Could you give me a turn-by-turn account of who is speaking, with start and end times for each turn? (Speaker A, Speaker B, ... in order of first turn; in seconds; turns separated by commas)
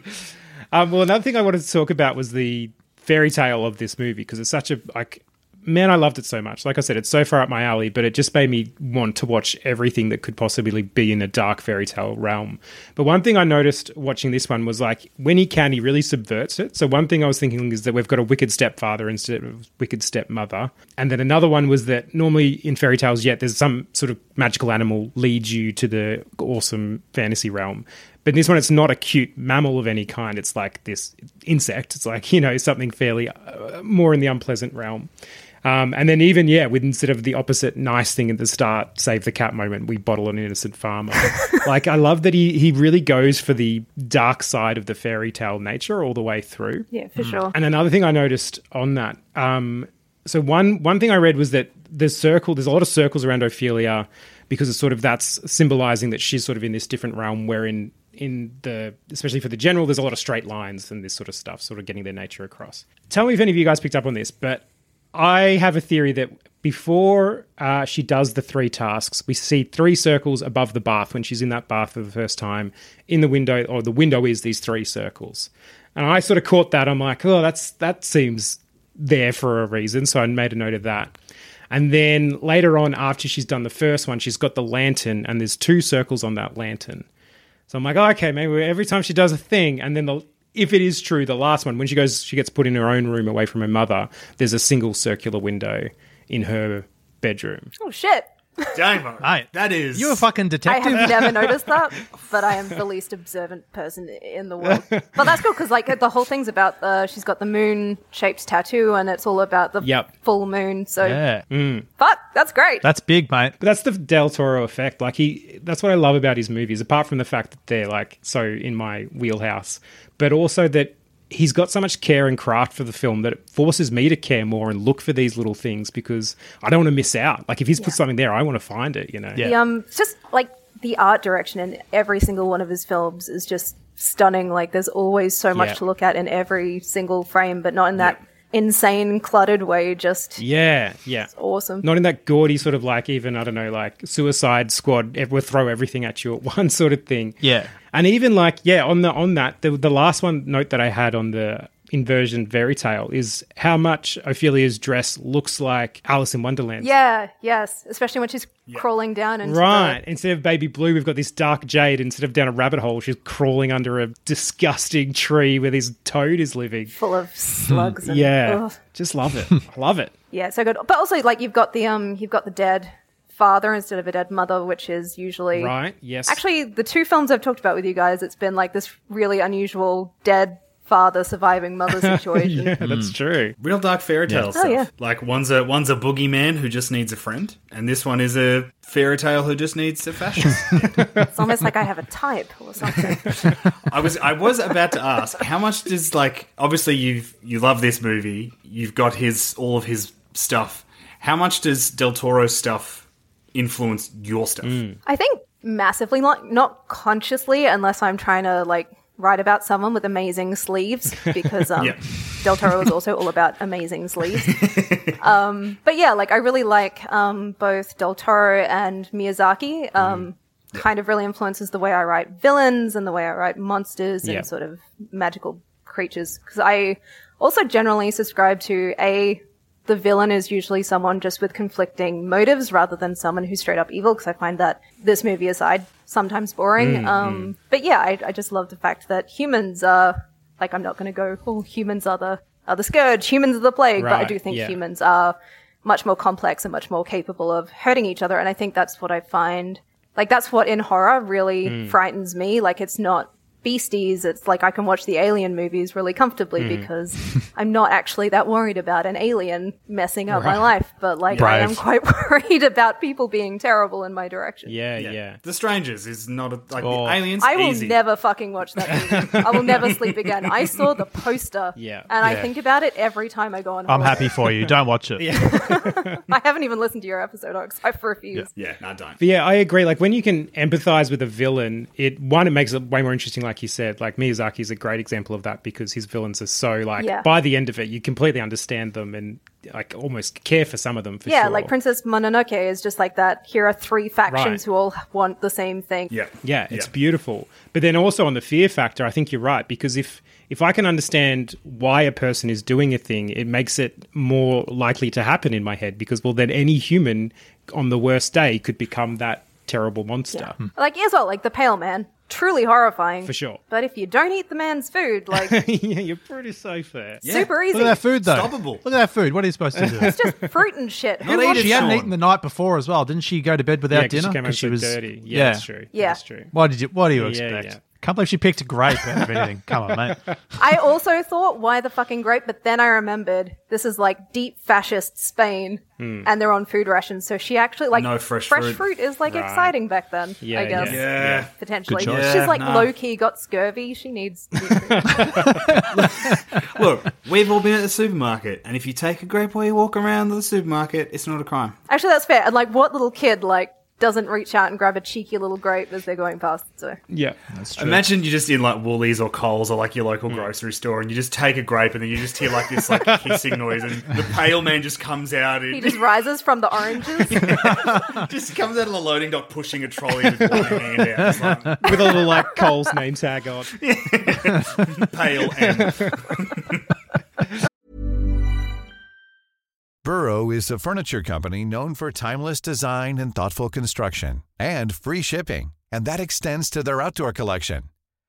Speaker A: 0.7-35.1, Speaker A: 35.6-46.9, Speaker B: 46.9-47.5, Speaker C: 47.2-47.5, Speaker A: 47.5-81.2, Speaker A: 81.7-87.1, Speaker A: 87.7-97.7, Speaker B: 97.8-98.8, Speaker D: 98.7-100.2, Speaker C: 99.2-101.6, Speaker B: 100.7-111.2, Speaker A: 104.6-105.4, Speaker A: 109.8-110.1, Speaker C: 111.0-111.5, Speaker A: 111.5-111.9, Speaker B: 112.0-112.9, Speaker C: 112.8-113.6, Speaker A: 113.6-129.5, Speaker B: 129.4-140.4, Speaker A: 135.5-135.8, Speaker A: 140.4-141.3, Speaker B: 141.3-141.9, Speaker A: 141.8-156.9, Speaker C: 147.4-147.7, Speaker B: 156.8-160.0, Speaker A: 159.4-166.9, Speaker B: 166.9-168.8, Speaker A: 168.0-170.1, Speaker B: 170.3-175.7, Speaker A: 175.5-176.4, Speaker B: 176.3-182.8, Speaker A: 182.0-183.6, Speaker C: 182.8-183.1, Speaker D: 183.6-191.3, Speaker B: 184.6-184.9, Speaker A: 191.0-191.3, Speaker B: 191.3-193.6, Speaker D: 193.3-204.8, Speaker A: 204.6-205.0, Speaker B: 205.1-264.8, Speaker D: 211.8-212.6, Speaker D: 214.4-215.2, Speaker D: 220.0-220.8, Speaker A: 236.8-237.5, Speaker A: 244.0-244.8, Speaker A: 251.7-252.0, Speaker A: 256.6-256.9, Speaker A: 260.3-260.7, Speaker D: 261.3-261.6, Speaker C: 261.4-261.8, Speaker A: 264.7-265.4, Speaker D: 265.0-268.0, Speaker C: 266.8-267.2, Speaker B: 267.4-274.3, Speaker A: 268.9-270.1, Speaker A: 271.8-272.1, Speaker C: 272.2-272.5, Speaker C: 273.9-275.4, Speaker A: 274.6-276.2, Speaker B: 275.4-278.5, Speaker D: 278.6-279.2, Speaker A: 279.2-291.7, Speaker B: 287.0-287.3, Speaker B: 291.2-296.1, Speaker A: 294.3-294.6, Speaker D: 296.1-296.9, Speaker A: 296.4-310.6, Speaker B: 310.3-315.6, Speaker A: 313.2-313.6, Speaker A: 315.3-317.3, Speaker D: 317.2-318.8, Speaker B: 317.3-318.0, Speaker C: 317.7-320.3, Speaker A: 319.8-320.4, Speaker B: 319.9-322.0, Speaker D: 321.2-322.1, Speaker C: 321.3-325.7, Speaker A: 323.9-326.5, Speaker B: 325.9-326.2, Speaker C: 326.5-330.4, Speaker A: 327.1-327.8, Speaker A: 329.1-329.4, Speaker B: 330.6-345.8, Speaker A: 336.0-336.3, Speaker D: 337.9-338.8, Speaker A: 339.3-339.7, Speaker A: 340.4-341.5, Speaker D: 340.7-342.9, Speaker C: 341.9-342.5, Speaker A: 344.9-345.9, Speaker C: 345.2-345.9, Speaker D: 345.8-351.8, Speaker B: 351.9-357.0, Speaker A: 357.1-357.4, Speaker C: 357.5-358.0, Speaker D: 357.8-366.0, Speaker B: 365.7-367.9, Speaker D: 367.3-372.3, Speaker A: 367.3-367.9, Speaker C: 371.3-371.6, Speaker A: 371.8-373.7, Speaker B: 371.8-372.7, Speaker D: 373.8-376.8, Speaker A: 375.6-376.2, Speaker E: 380.0-387.9